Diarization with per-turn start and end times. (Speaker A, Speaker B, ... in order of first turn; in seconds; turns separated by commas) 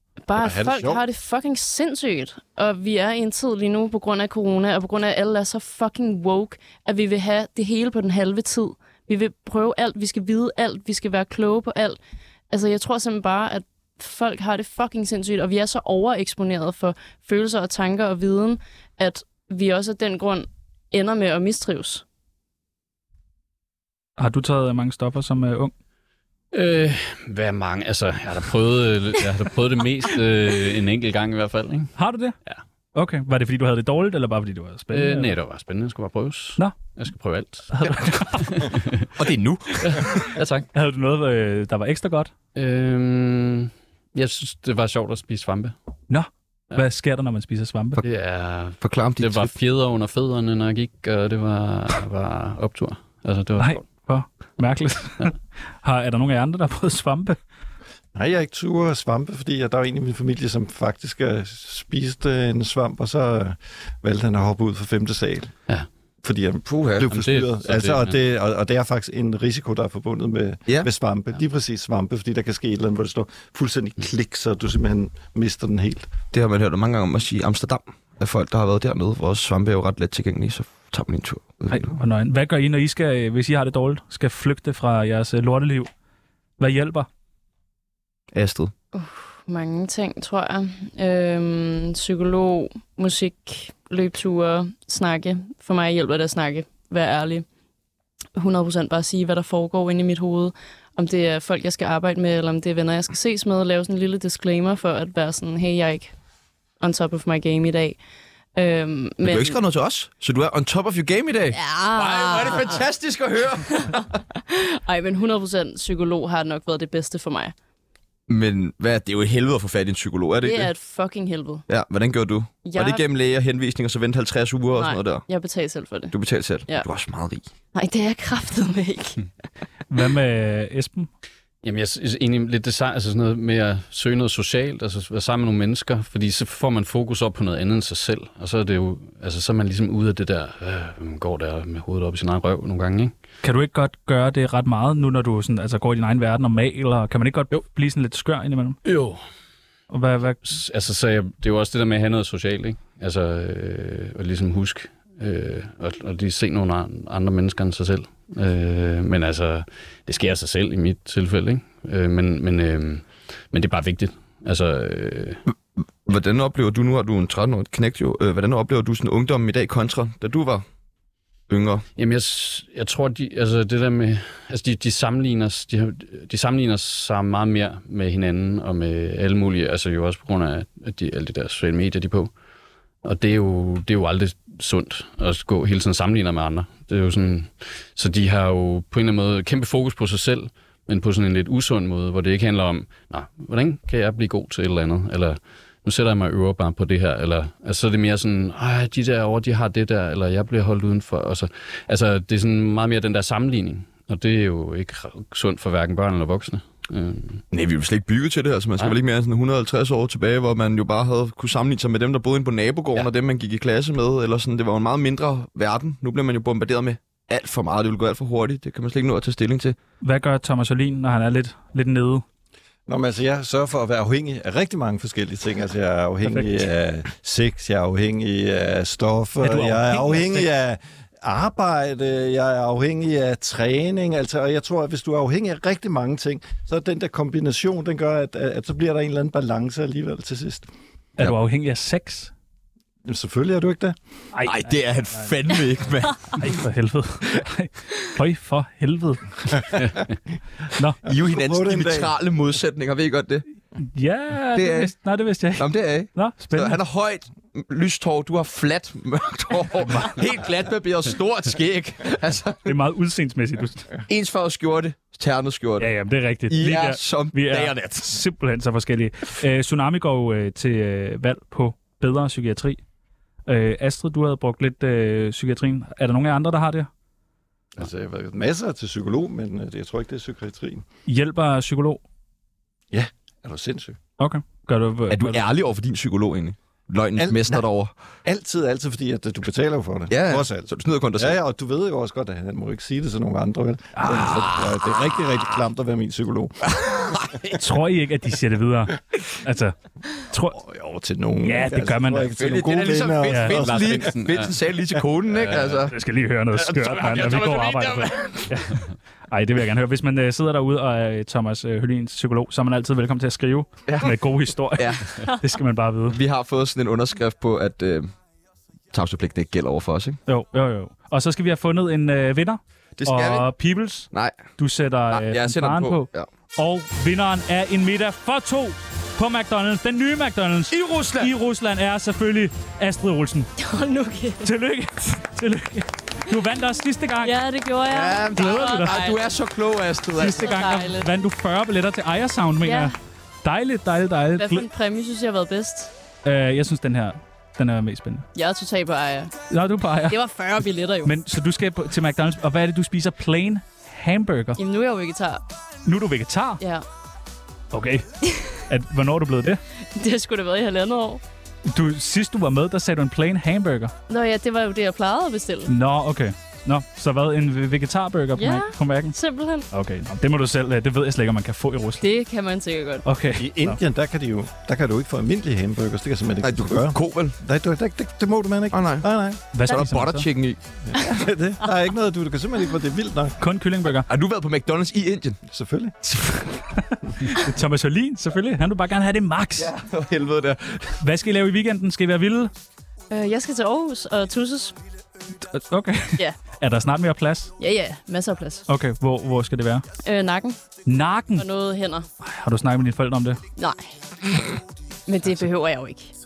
Speaker A: 0.3-22.0, Speaker B: 0.4-1.0, Speaker C: 24.2-25.7, Speaker D: 26.5-31.9, Speaker C: 31.9-32.4, Speaker C: 32.9-35.3, Speaker D: 34.9-39.1, Speaker C: 37.7-38.7, Speaker E: 39.1-40.2, Speaker D: 39.8-40.7, Speaker C: 40.7-42.3, Speaker D: 42.5-45.7, Speaker C: 46.1-48.0, Speaker D: 48.0-53.8, Speaker E: 48.8-49.5, Speaker C: 53.6-55.3, Speaker C: 55.8-57.4, Speaker B: 58.1-65.5, Speaker B: 66.2-76.1, Speaker E: 66.6-67.1, Speaker D: 67.1-68.2, Speaker E: 76.3-81.9, Speaker C: 81.7-85.9, Speaker C: 86.6-87.1, Speaker E: 88.3-88.7, Speaker A: 88.9-97.4, Speaker A: 98.3-106.1, Speaker A: 106.8-108.0, Speaker A: 108.5-109.6, Speaker E: 109.2-114.0, Speaker A: 111.5-112.8, Speaker A: 113.7-117.5, Speaker E: 118.3-120.7, Speaker A: 120.4-121.6, Speaker E: 121.7-125.2, Speaker A: 122.6-123.0, Speaker A: 124.7-126.1, Speaker E: 126.1-127.4, Speaker A: 127.7-129.2, Speaker C: 129.9-131.1, Speaker D: 131.6-143.1, Speaker C: 143.4-148.8, Speaker D: 148.8-149.2, Speaker C: 149.9-150.4, Speaker D: 150.4-165.4, Speaker E: 166.0-170.6, Speaker E: 171.5-171.8, Speaker D: 171.9-182.3, Speaker D: 183.0-207.4, Speaker E: 207.5-219.8, Speaker C: 220.0-222.2, Speaker B: 222.9-240.7, Speaker C: 229.4-230.5, Speaker C: 241.2-242.3, Speaker B: 243.1-243.9, Speaker C: 244.3-245.3, Speaker E: 244.4-246.5, Speaker C: 246.4-249.7, Speaker E: 251.0-253.4, Speaker B: 251.1-252.1, Speaker C: 253.9-256.8, Speaker E: 254.5-254.9, Speaker E: 255.5-262.7, Speaker C: 259.9-260.2, Speaker C: 262.6-263.9, Speaker E: 264.1-265.9, Speaker C: 265.8-272.8, Speaker E: 266.5-268.2, Speaker C: 273.5-276.9, Speaker B: 277.8-280.8, Speaker C: 281.1-282.0, Speaker B: 282.9-284.0, Speaker C: 284.2-285.4, Speaker E: 285.1-287.9, Speaker B: 287.2-287.6, Speaker B: 288.2-296.6, Speaker E: 290.1-291.4, Speaker C: 293.9-294.4, Speaker E: 294.2-295.0, Speaker E: 296.7-297.6, Speaker C: 297.5-300.6, Speaker B: 300.5-304.2, Speaker C: 301.4-302.2, Speaker E: 302.1-305.9, Speaker C: 303.2-303.6, Speaker D: 303.7-304.6, Speaker D: 305.3-305.9, Speaker C: 305.9-316.2, Speaker E: 306.5-308.7, Speaker E: 313.9-315.2, Speaker E: 316.1-318.1, Speaker E: 318.9-320.2, Speaker C: 320.3-333.5, Speaker E: 323.0-323.5, Speaker E: 324.1-324.4, Speaker E: 325.1-326.3, Speaker E: 330.7-331.3, Speaker A: 333.6-334.5, Speaker C: 334.4-337.4, Speaker A: 337.2-339.4, Speaker E: 337.9-340.5, Speaker C: 338.4-338.9, Speaker C: 340.1-342.9, Speaker A: 340.3-341.1, Speaker A: 342.6-342.9, Speaker C: 343.4-344.6, Speaker A: 344.4-345.9, Speaker C: 346.2-348.3, Speaker A: 348.3-349.3, Speaker C: 349.5-350.2, Speaker A: 350.1-351.1, Speaker C: 351.0-354.6, Speaker A: 354.6-355.4, Speaker C: 355.8-356.6, Speaker A: 356.6-356.8, Speaker C: 357.7-359.6, Speaker A: 358.2-358.6, Speaker A: 359.9-361.2, Speaker C: 361.6-363.9, Speaker A: 364.1-365.7, Speaker C: 365.6-369.2, Speaker A: 368.4-369.7, Speaker C: 369.7-372.1, Speaker A: 372.0-373.0, Speaker C: 373.0-373.8, Speaker B: 373.3-379.4, Speaker E: 376.4-377.4, Speaker E: 378.7-380.6, Speaker C: 379.5-380.3, Speaker B: 380.9-383.4, Speaker C: 383.4-384.1, Speaker E: 384.1-385.4, Speaker B: 385.5-385.9, Speaker C: 386.9-389.7, Speaker E: 389.6-391.0, Speaker C: 391.0-392.5, Speaker A: 393.1-394.8, Speaker C: 395.5-397.5, Speaker A: 397.6-398.6, Speaker C: 398.7-399.9, Speaker A: 400.0-400.6, Speaker C: 400.9-401.4, Speaker A: 401.4-402.1, Speaker C: 402.2-403.4, Speaker A: 403.6-403.9, Speaker A: 405.1-406.1